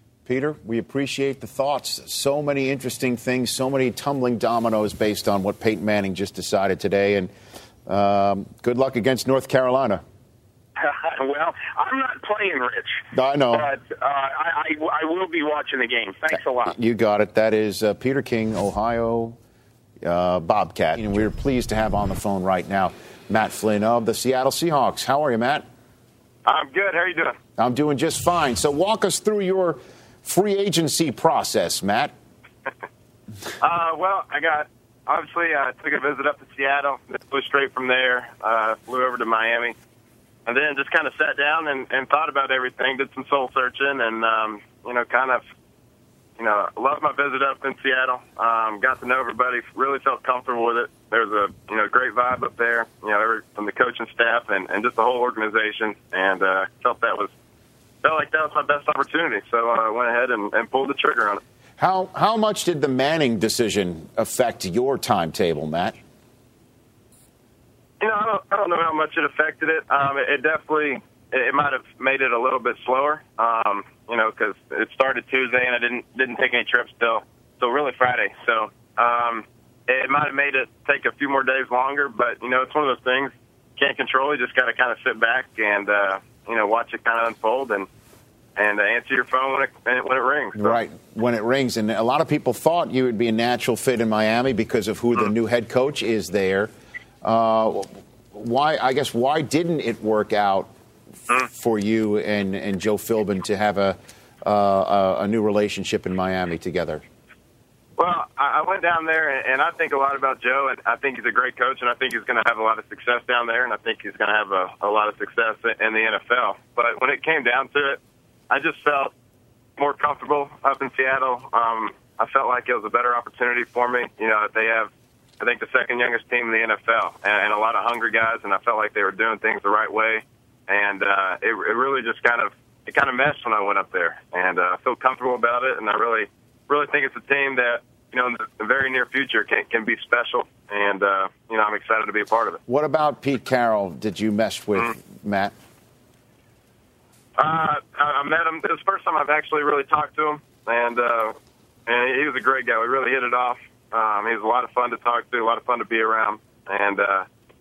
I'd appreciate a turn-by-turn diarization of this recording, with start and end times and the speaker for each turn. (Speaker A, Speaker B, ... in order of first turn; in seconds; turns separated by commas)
Speaker A: 0.3-7.3, Speaker A: 7.9-10.0, Speaker B: 10.8-16.8, Speaker A: 13.1-13.7, Speaker A: 16.7-19.4, Speaker A: 20.0-25.6, Speaker C: 26.5-27.4, Speaker A: 27.6-32.1, Speaker C: 33.6-39.8, Speaker C: 40.5-45.4, Speaker C: 46.4-57.3, Speaker C: 58.0-61.4, Speaker A: 61.8-66.0, Speaker C: 68.0-87.9, Speaker C: 88.6-90.8, Speaker A: 90.5-96.7, Speaker A: 97.2-100.7, Speaker A: 101.5-107.0, Speaker C: 108.0-119.1, Speaker C: 119.8-142.6, Speaker A: 142.7-145.5, Speaker C: 147.4-151.3, Speaker C: 151.9-157.3